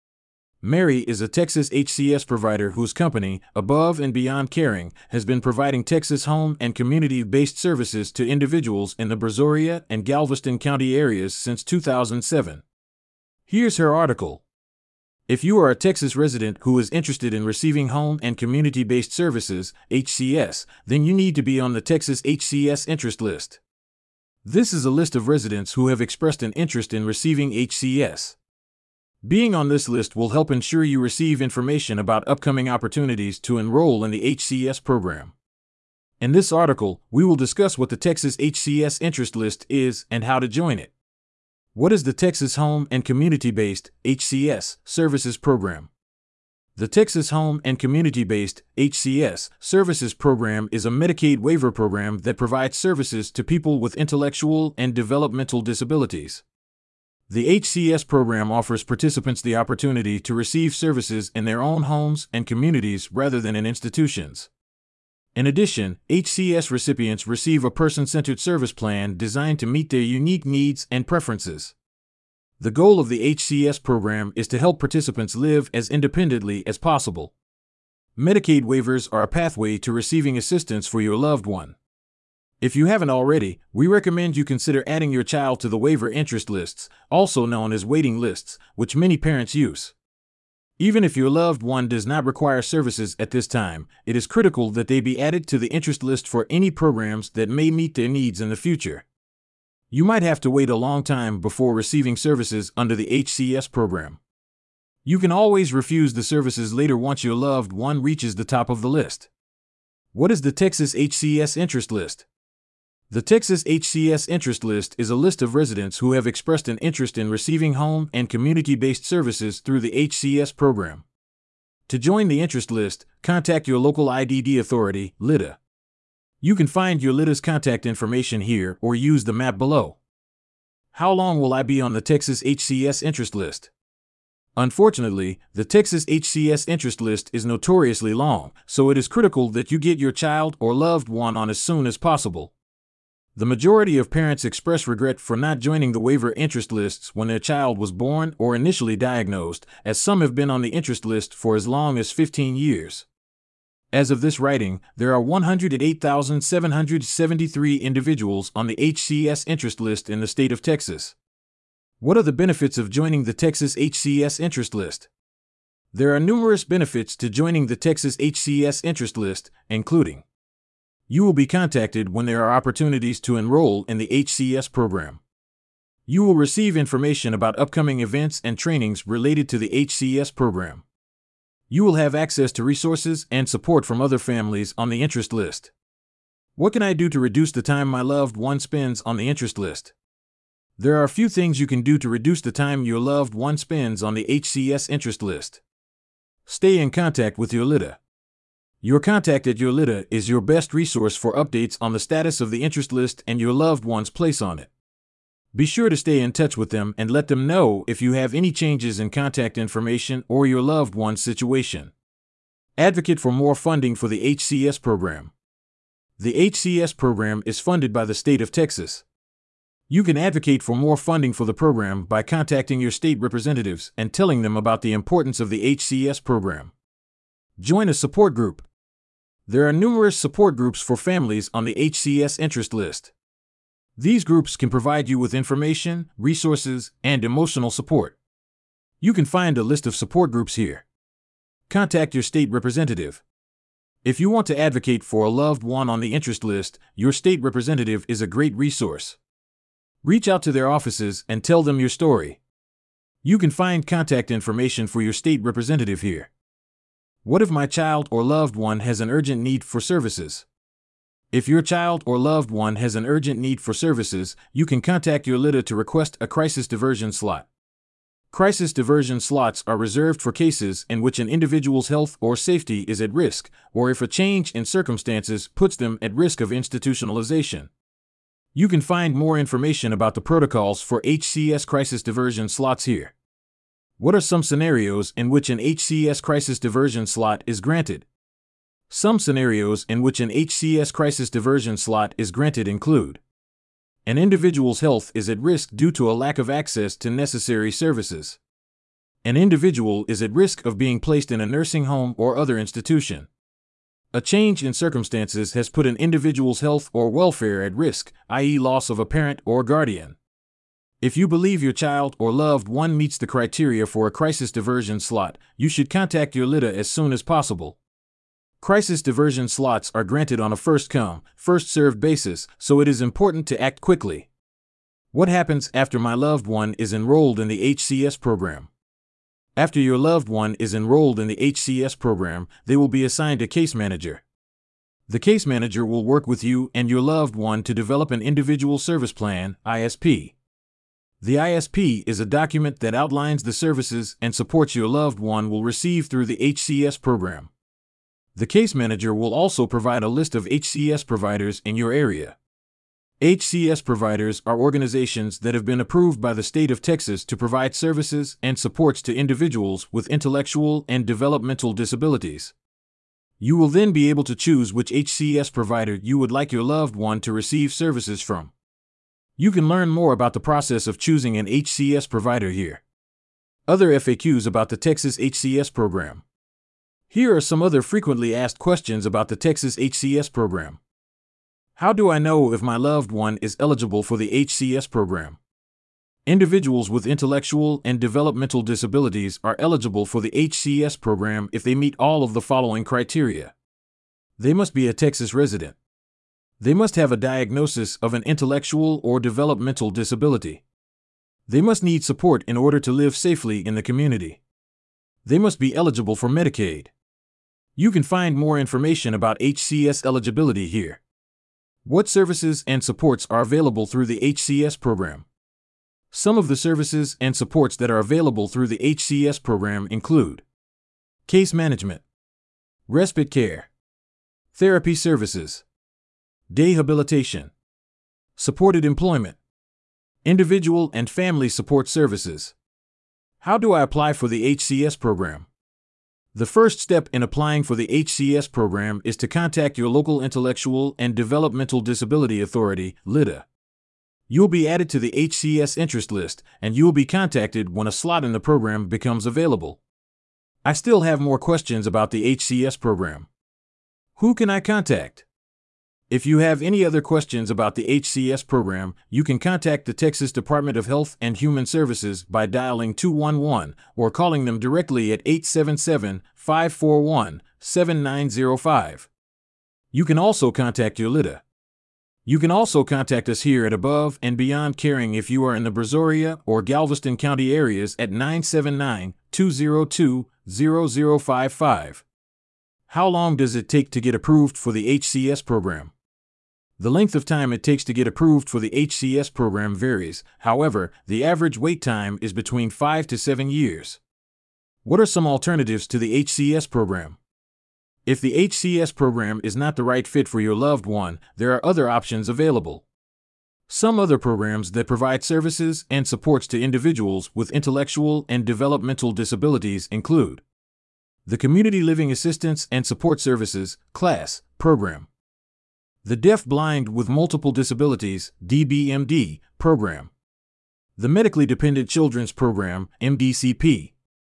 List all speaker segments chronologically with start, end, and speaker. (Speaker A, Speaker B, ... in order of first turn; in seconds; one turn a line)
Speaker A: 0.6-12.6
Speaker A: 13.5-14.4
Speaker A: 15.3-23.6
Speaker A: 24.4-28.4
Speaker A: 29.2-35.3
Speaker A: 36.2-40.9
Speaker A: 41.7-45.9
Speaker A: 46.8-56.4
Speaker A: 57.3-64.5
Speaker A: 65.3-71.8
Speaker A: 72.6-77.3
Speaker A: 78.2-81.8
Speaker A: 82.6-89.9
Speaker A: 90.8-99.1
Speaker A: 99.9-104.2
Speaker A: 105.0-109.3
Speaker A: 110.1-112.2
Speaker A: 113.1-121.0
Speaker A: 121.9-125.6
Speaker A: 126.4-130.0
Speaker A: 130.9-133.7
Speaker A: 134.6-142.5
Speaker A: 143.3-153.1
Speaker A: 153.9-161.2
Speaker A: 162.0-165.1
Speaker A: 165.9-170.2
Speaker A: 171.1-175.2
Speaker A: 176.1-180.8
Speaker A: 181.7-185.7
Speaker A: 186.6-189.9
Speaker A: 190.8-195.6
Speaker A: 196.5-198.0
Speaker A: 198.8-204.7
Speaker A: 205.5-211.9
Speaker A: 212.8-215.3
Speaker A: 216.2-219.1
Speaker A: 219.9-226.7
Speaker A: 227.6-228.7
Speaker A: 229.5-233.1
Speaker A: 234.0-238.2
Speaker A: 239.0-240.9
Speaker A: 241.7-243.2
Speaker A: 244.0-249.2
Speaker A: 250.0-252.4
Speaker A: 253.2-256.3
Speaker A: 257.2-260.5
Speaker A: 261.3-267.5
Speaker A: 268.3-277.7
Speaker A: 278.5-283.1
Speaker A: 284.0-288.1
Speaker A: 288.9-293.2
Speaker A: 294.1-298.4
Speaker A: 299.2-303.3
Speaker A: 304.1-310.2
Speaker A: 311.0-317.8
Speaker A: 318.6-324.3
Speaker A: 325.1-328.7
Speaker A: 329.6-334.2
Speaker A: 335.1-340.4
Speaker A: 341.2-347.5
Speaker A: 348.4-352.4
Speaker A: 353.2-362.5
Speaker A: 363.4-368.5
Speaker A: 369.4-372.8
Speaker A: 373.7-376.2
Speaker A: 377.1-380.8
Speaker A: 381.8-385.4
Speaker A: 386.2-393.5
Speaker A: 394.4-395.8
Speaker A: 396.6-400.6
Speaker A: 401.5-404.4
Speaker A: 405.2-406.9
Speaker A: 407.8-411.0
Speaker A: 411.8-415.2
Speaker A: 416.1-420.4
Speaker A: 421.2-422.0
Speaker A: 422.9-423.7
Speaker A: 424.5-425.6
Speaker A: 426.5-427.5
Speaker A: 428.4-429.4
Speaker A: 430.2-432.6
Speaker A: 433.4-435.5
Speaker A: 436.3-443.5
Speaker A: 444.3-449.8
Speaker A: 450.6-453.3
Speaker A: 454.2-455.2
Speaker A: 456.1-469.1
Speaker A: 469.9-471.4
Speaker A: 472.2-482.1
Speaker A: 482.9-485.9
Speaker A: 486.8-494.0
Speaker A: 494.8-497.2
Speaker A: 498.1-502.9
Speaker A: 503.7-510.4
Speaker A: 511.3-515.1
Speaker A: 516.0-520.1
Speaker A: 521.0-523.9